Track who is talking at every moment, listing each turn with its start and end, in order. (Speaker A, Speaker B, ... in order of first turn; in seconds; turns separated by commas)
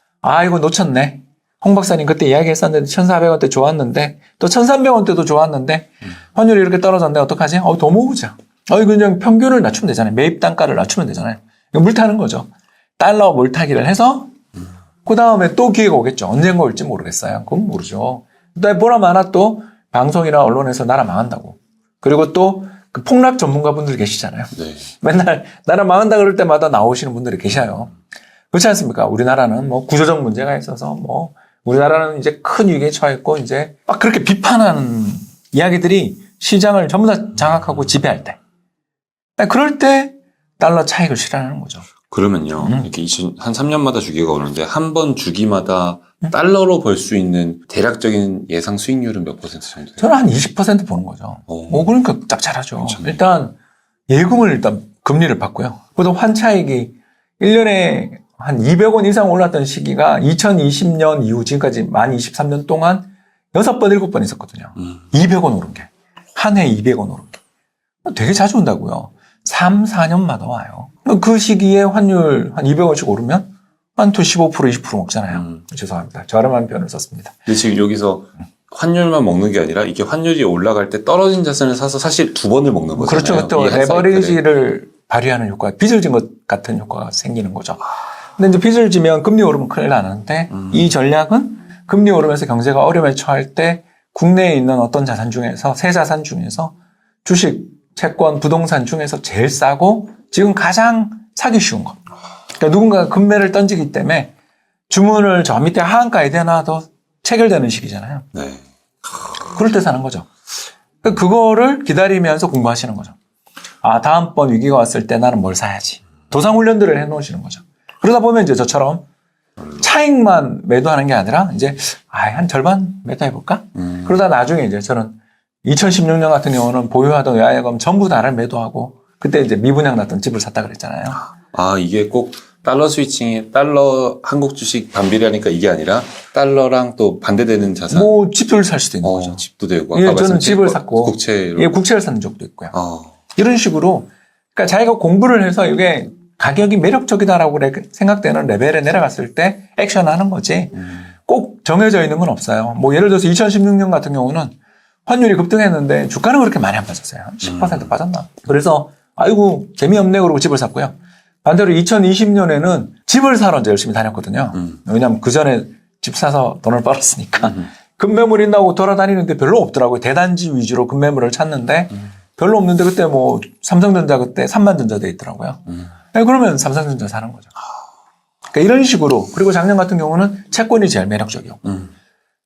Speaker A: 0.2-14.3, Speaker A: 15.1-27.9, Speaker A: 28.5-38.4, Speaker A: 39.4-41.9, Speaker B: 42.1-50.2, Speaker A: 42.6-42.9, Speaker A: 50.0-53.6, Speaker B: 51.5-52.0, Speaker B: 52.9-53.2, Speaker A: 54.1-67.4, Speaker A: 68.0-77.5, Speaker B: 77.5-84.4, Speaker A: 83.0-102.0, Speaker A: 102.5-104.3, Speaker A: 104.9-108.3, Speaker B: 108.3-108.7, Speaker A: 109.4-110.3, Speaker A: 111.0-113.2, Speaker A: 113.8-119.0, Speaker A: 119.7-131.2, Speaker B: 131.2-138.1, Speaker A: 137.9-139.4, Speaker B: 139.0-141.7, Speaker A: 139.9-142.7, Speaker B: 142.7-143.1, Speaker A: 143.3-154.5, Speaker A: 155.1-177.5, Speaker A: 178.5-181.8